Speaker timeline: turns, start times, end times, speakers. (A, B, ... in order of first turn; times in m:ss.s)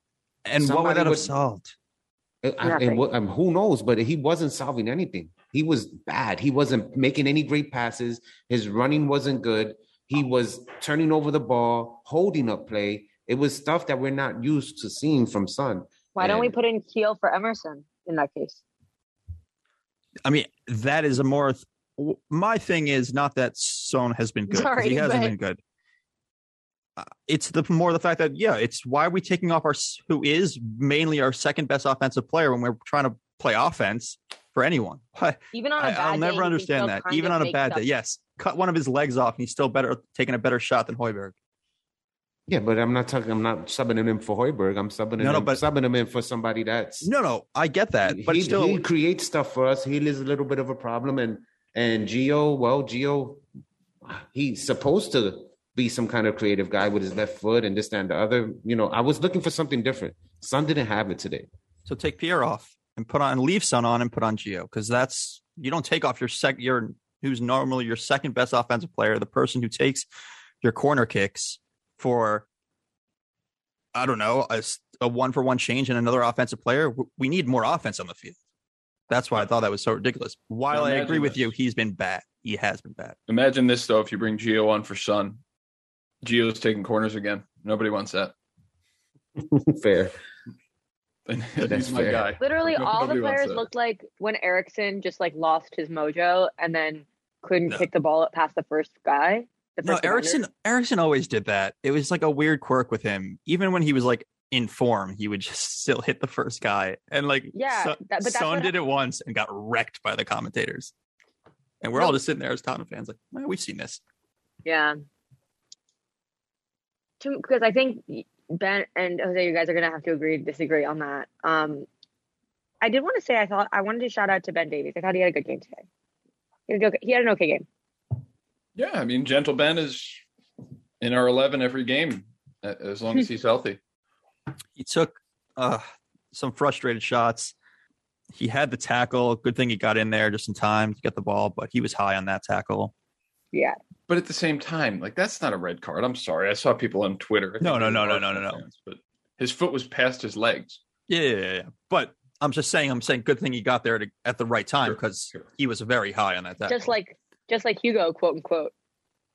0:00.4-0:01.7 A
0:00.6-0:01.3 B
0:02.4-0:16.5 B
0:02.6-0:03.0 C
0:16.1-0:18.6 C
0:20.2-0:25.6 A
0:24.5-0:25.3 C
0:27.0-0:41.3 A
0:35.5-0:37.8 C
0:42.5-0:47.1 B
0:45.2-0:45.6 A
0:47.0-0:48.8 A
0:48.0-0:53.4 B
0:54.0-1:01.5 B
1:01.9-1:10.1 A
1:10.6-1:12.5 A
1:13.9-1:18.4 A
1:19.1-1:23.2 A
1:20.7-1:21.5 D
1:23.3-1:25.4 D
1:26.2-1:28.3 D
1:29.4-1:30.2 B
1:31.3-1:33.6 D
1:31.6-1:32.3 B
1:32.4-1:40.4 C
1:39.8-1:50.9 A
1:47.5-1:48.7 C
1:51.8-1:54.0 A
1:54.6-1:54.9 C
1:57.2-2:01.8 C
2:02.8-2:05.8 C
2:06.7-2:07.6 C
2:08.8-2:10.2 D
2:11.0-2:13.8 D
2:14.8-2:17.5 A
2:18.3-2:22.9 A
2:24.1-2:30.8 D
2:27.6-2:28.6 A
2:31.1-2:36.9 A
2:34.8-2:35.4 D
2:36.7-2:38.7 C